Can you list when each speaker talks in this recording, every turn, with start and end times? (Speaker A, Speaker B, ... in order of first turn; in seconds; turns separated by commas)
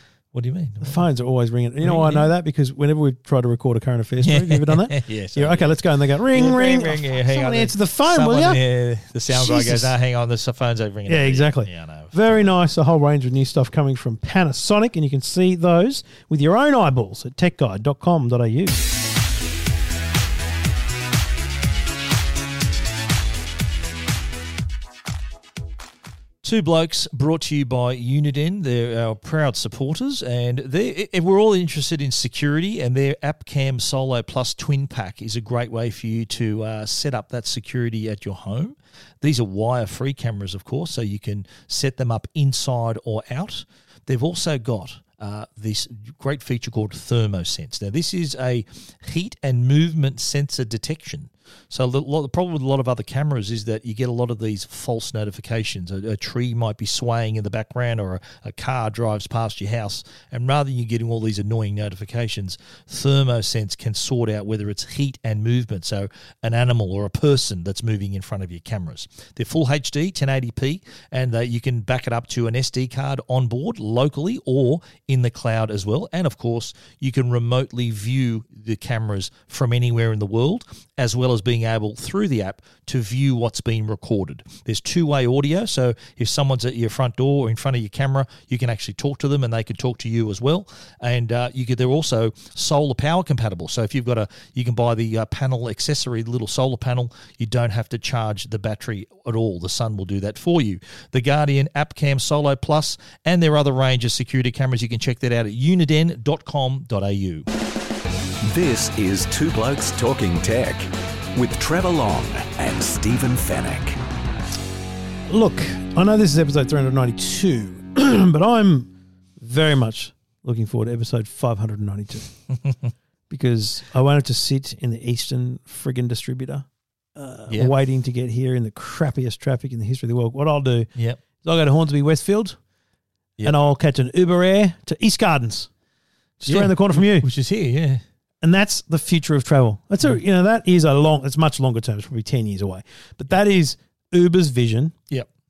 Speaker A: 0.3-1.0, Speaker B: 0.8-8.6, Speaker A: 1.8-2.3, Speaker A: 4.2-12.5, Speaker B: 9.3-9.9, Speaker B: 11.1-18.9, Speaker A: 26.4-107.5, Speaker C: 108.4-114.0, Speaker B: 115.3-122.3, Speaker B: 123.3-132.6, Speaker B: 133.4-135.7, Speaker B: 136.4-137.3, Speaker A: 136.4-138.0, Speaker B: 138.4-144.9